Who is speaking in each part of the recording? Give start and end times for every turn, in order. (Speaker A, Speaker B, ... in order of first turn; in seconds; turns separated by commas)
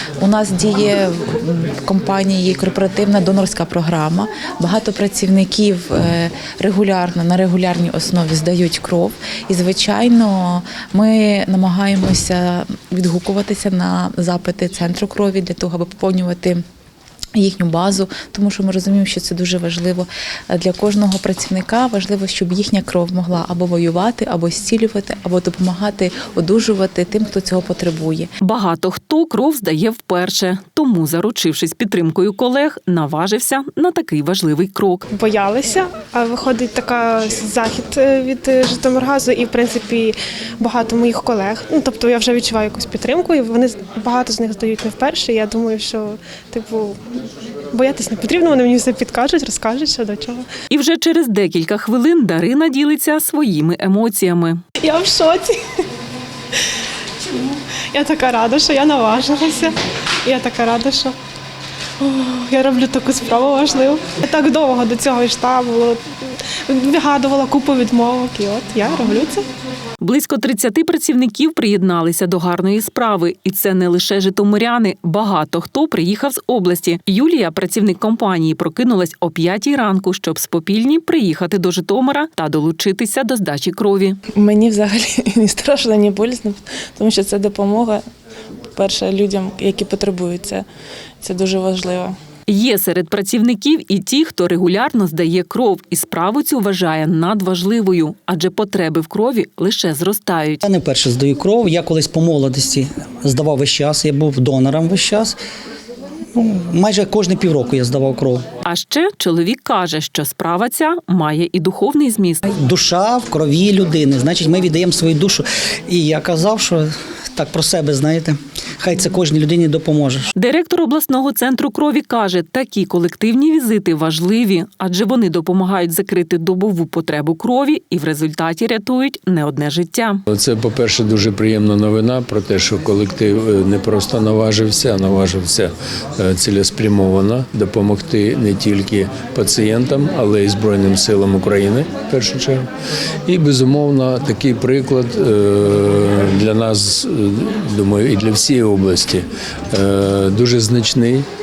Speaker A: 0.2-16.6, Speaker A: 17.4-28.3, Speaker B: 28.4-35.1, Speaker C: 35.1-47.1, Speaker C: 47.7-50.5, Speaker B: 50.7-54.6, Speaker C: 54.8-55.9, Speaker C: 57.3-61.2, Speaker C: 62.0-69.5, Speaker B: 70.0-84.2, Speaker D: 84.3-88.1, Speaker D: 88.8-90.7, Speaker D: 91.2-92.2, Speaker B: 92.5-100.6, Speaker E: 100.6-105.4, Speaker E: 106.3-108.4, Speaker B: 108.7-112.5, Speaker E: 112.5-120.3, Speaker B: 120.4-130.2, Speaker F: 130.3-142.7, Speaker F: 143.3-151.3